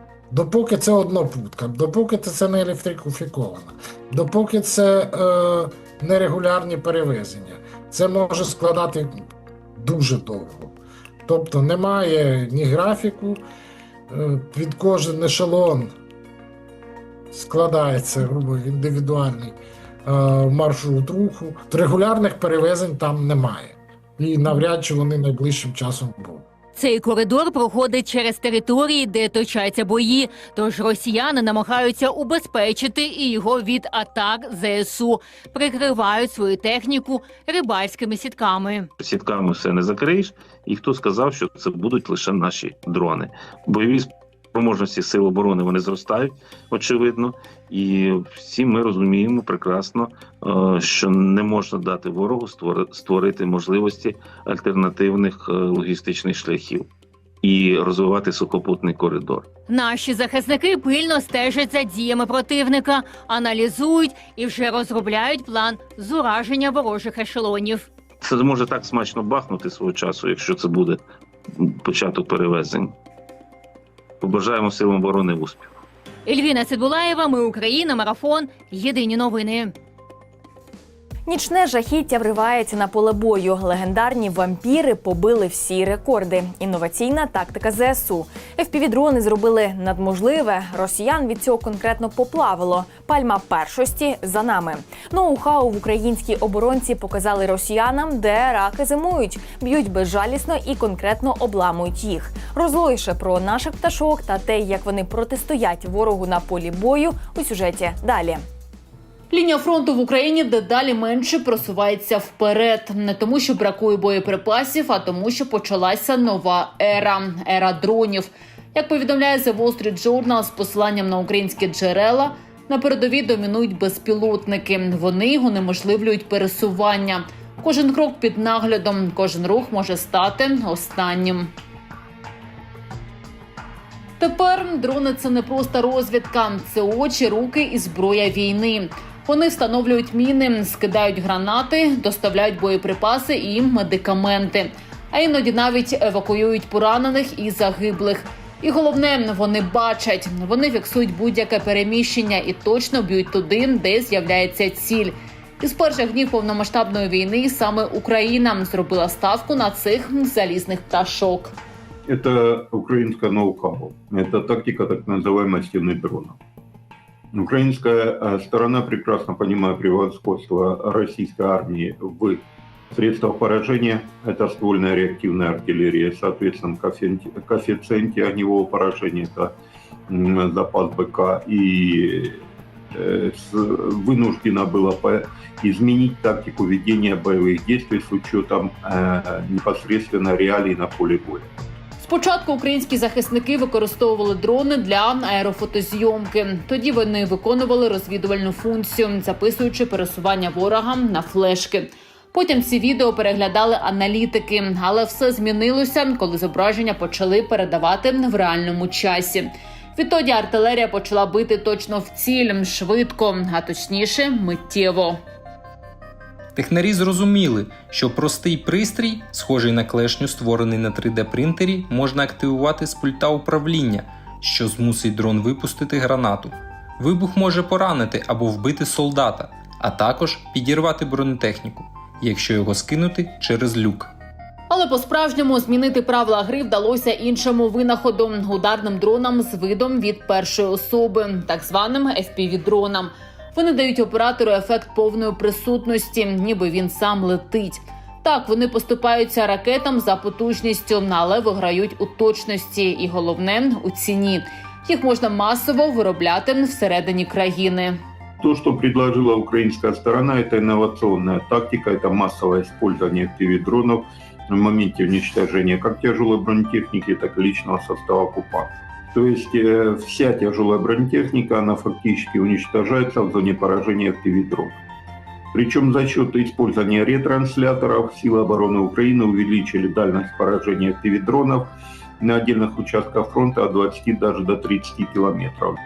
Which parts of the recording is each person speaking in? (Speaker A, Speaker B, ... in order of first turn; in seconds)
Speaker A: 0.3-9.2, 9.8-10.7, 11.3-13.4, 14.1-15.9, 17.3-26.4
Speaker B: 26.8-38.9, 59.7-67.9, 76.3-79.7
Speaker C: 39.0-56.9, 57.4-59.5, 68.2-71.0, 71.6-72.9, 74.2-75.7
Speaker D: 81.3-108.4
Speaker E: 109.3-131.5, 134.2-161.5, 192.0-215.2, 234.7-258.0
Speaker F: 162.1-166.4, 167.3-172.4, 172.9-179.5, 180.1-182.4, 182.9-191.5, 258.4-274.8, 275.5-285.8
Speaker G: 216.6-234.1